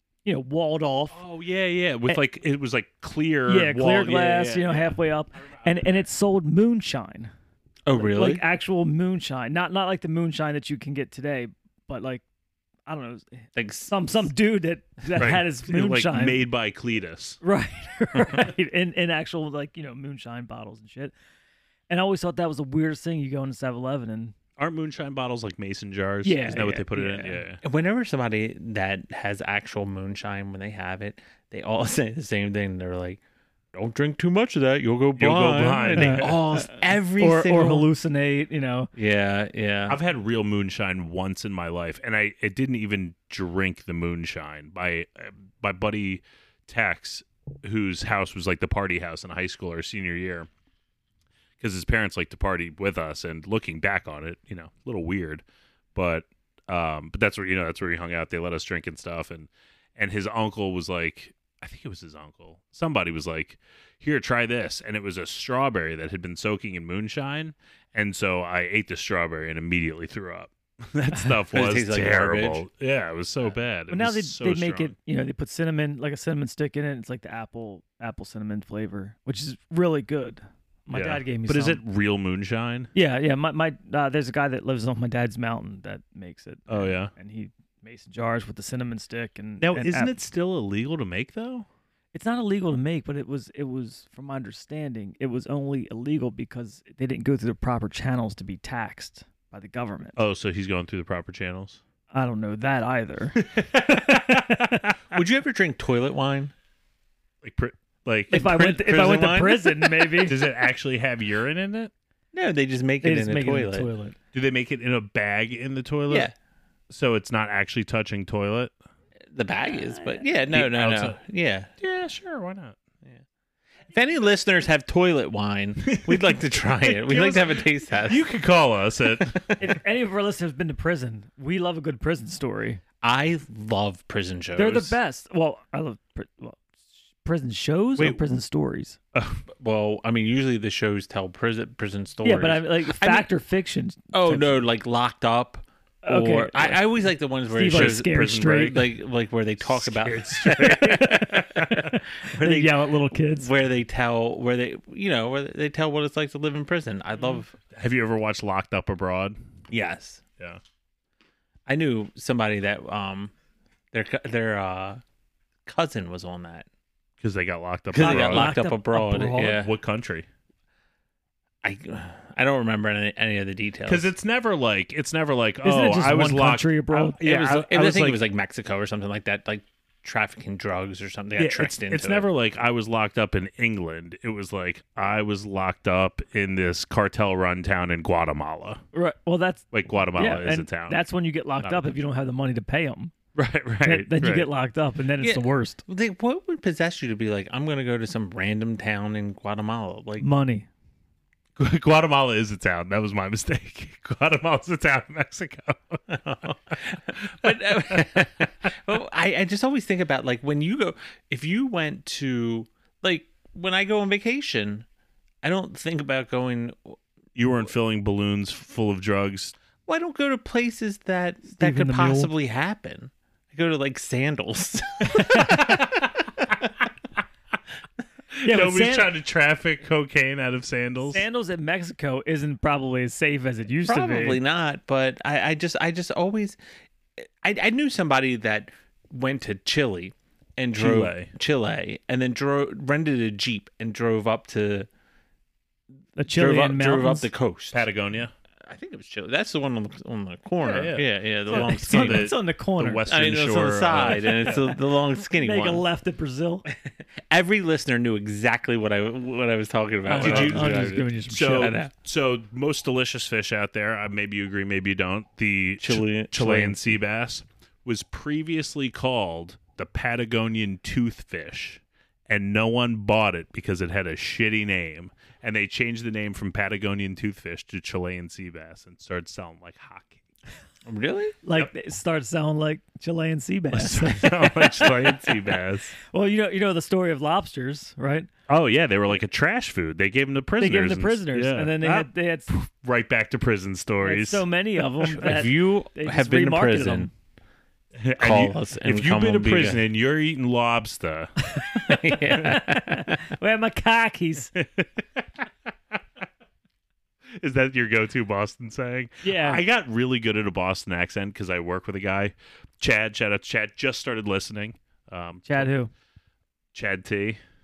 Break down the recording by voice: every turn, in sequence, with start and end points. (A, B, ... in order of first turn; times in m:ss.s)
0:00.2-0:01.2 A
0:01.1-0:05.8 B
0:03.5-0:07.3 A
0:07.9-0:08.4 C
0:08.0-0:12.2 A
0:12.9-0:16.4 A
0:13.6-0:13.9 C
0:15.2-0:17.4 B
0:17.4-0:21.1 A
0:21.9-0:24.3 A
0:24.6-0:27.6 B
0:26.2-0:27.4 A
0:27.6-0:33.2 C
0:33.7-0:37.9 C
0:35.2-0:36.4 B
0:35.9-0:38.9 A
0:39.0-0:40.0 C
0:39.9-0:50.5 B
0:51.6-0:55.4 B
0:56.0-1:14.9 B
1:11.5-1:12.6 C
1:13.9-1:21.8 A
1:20.9-1:22.9 B
1:23.0-1:30.1 A
1:26.7-1:27.1 B
1:29.6-1:31.7 B
1:32.1-1:40.2 A
1:40.2-1:41.8 B
1:42.1-1:43.5 A
1:43.4-1:45.2 B
1:44.3-1:44.8 A
1:45.1-1:46.5 C
1:47.4-1:48.4 B
1:48.3-1:50.2 C
1:48.3-1:50.5 A
1:50.3-1:51.9 B
1:52.3-1:53.9 C
1:53.0-1:54.2 A
1:54.3-1:56.3 B
1:56.1-1:56.3 C
1:56.9-1:58.7 B
1:59.3-2:01.7 C
2:00.5-2:01.2 B
2:01.8-2:02.8 B
2:03.9-2:08.3 C
2:05.8-2:09.6 B
2:09.2-2:09.7 C
2:09.6-2:12.8 A
2:13.0-2:15.0 C
2:14.6-2:16.6 A
2:17.2-2:19.0 A
2:19.1-2:19.4 B
2:19.5-2:23.3 C
2:22.2-2:24.6 A
2:24.1-2:37.6 C
2:26.0-2:27.0 A
2:27.5-2:28.9 A
2:27.7-2:28.8 B
2:29.6-2:32.0 B
2:30.8-2:33.5 A
2:37.7-2:39.4 B
2:39.7-2:40.2 C
2:41.7-2:43.3 C
2:43.9-2:45.0 C
2:45.7-2:46.7 C
2:47.2-2:48.5 B
2:47.9-2:49.7 C
2:48.0-2:49.6 A
2:49.5-2:50.3 B
2:51.6-2:54.1 C
2:53.9-2:58.2 B
2:55.6-2:57.2 A
2:57.2-3:02.3 C
3:01.4-3:08.8 B
3:08.9-3:13.1 A
3:09.7-3:11.0 B
3:11.6-3:11.9 B
3:13.4-3:14.5 B
3:13.8-3:15.8 A
3:15.2-3:20.3 C
3:20.2-3:20.7 A
3:21.6-3:26.1 B
3:26.1-3:34.9 C
3:35.4-3:37.0 C
3:37.4-3:39.6 B
3:39.9-3:45.8 C
3:41.5-3:42.3 A
3:45.2-3:46.0 B
3:48.3-3:51.2 B
3:48.4-3:49.1 A
3:51.1-3:54.4 A
3:53.8-3:56.6 C
3:57.2-4:04.9 C
4:00.8-4:01.3 B
4:06.2-4:07.3 A
4:06.3-4:07.9 C
4:07.7-4:08.3 B
4:08.6-4:12.3 C
4:10.6-4:14.7 B
4:11.5-4:13.0 A
4:13.1-4:15.8 C
4:15.3-4:16.7 A
4:16.9-4:21.1 C
4:20.1-4:21.9 A
4:20.1-4:40.2 B
4:25.8-4:27.0 C
4:40.9-4:41.4 C
4:41.4-4:45.3 A
4:43.7-4:46.0 B
4:46.0-4:48.3 A
4:48.5-4:54.4 B
4:50.6-4:52.5 A
4:54.0-4:57.1 A
4:55.0-4:57.1 C
4:58.0-5:01.3 B
4:58.2-4:59.8 C
5:01.8-5:03.2 C
5:01.8-5:04.5 A
5:04.6-5:05.4 B
5:07.4-5:15.7 B
5:09.2-5:09.6 A
5:15.5-5:15.9 A
5:16.7-5:17.4 B